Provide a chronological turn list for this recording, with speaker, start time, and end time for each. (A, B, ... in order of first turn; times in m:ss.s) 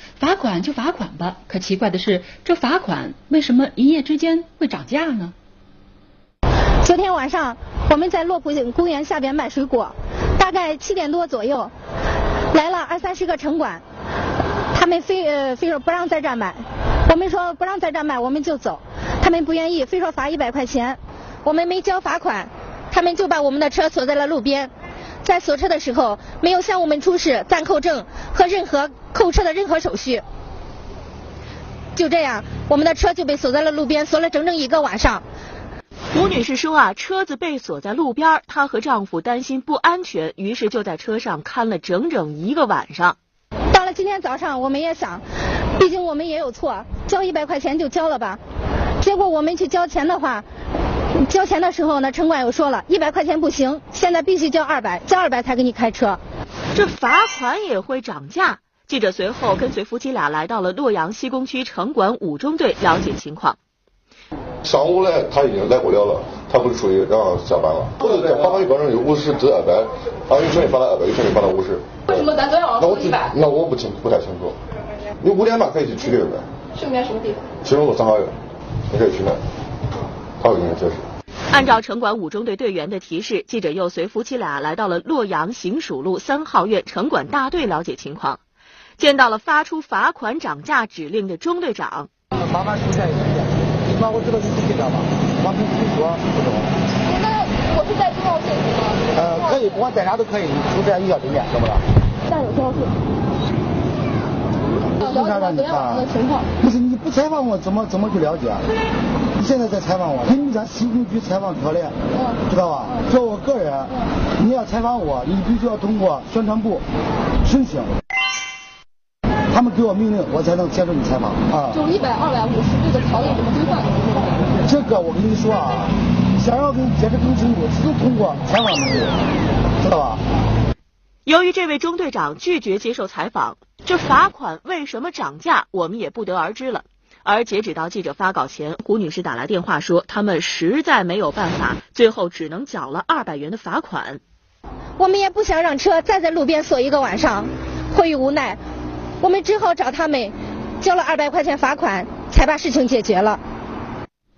0:00.2-0:05.3 A
0:06.8-0:11.7 B
0:12.5-0:13.8 B
0:14.7-0:24.7 B
0:25.2-0:30.2 B
0:32.0-0:35.2 B
0:36.1-0:43.2 C
0:43.7-0:45.2 B
0:45.8-0:48.4 B
0:49.0-0:50.4 B
0:51.2-0:56.2 B
0:56.7-1:03.6 C
1:04.6-1:14.6 D
1:12.1-1:13.3 E
1:15.2-1:16.5 D
1:16.8-1:17.5 E
1:17.6-1:18.4 D
1:18.9-1:19.4 D
1:20.4-1:21.0 D
1:21.5-1:28.4 C
1:29.0-1:32.1 C
1:32.3-1:36.8 F
1:37.0-1:39.6 E
1:39.1-1:41.8 F
1:42.2-1:42.9 E
1:45.0-1:46.1 F
1:45.0-1:46.5 E
1:46.6-1:48.6 F
1:49.4-1:56.8 F
1:57.4-1:58.0 F
1:59.5-2:01.8 F
2:01.7-2:04.3 E
2:04.6-2:09.2 F
2:09.8-2:10.2 F
2:11.2-2:24.2 C
2:25.0-2:28.6 B
2:29.2-2:33.4 B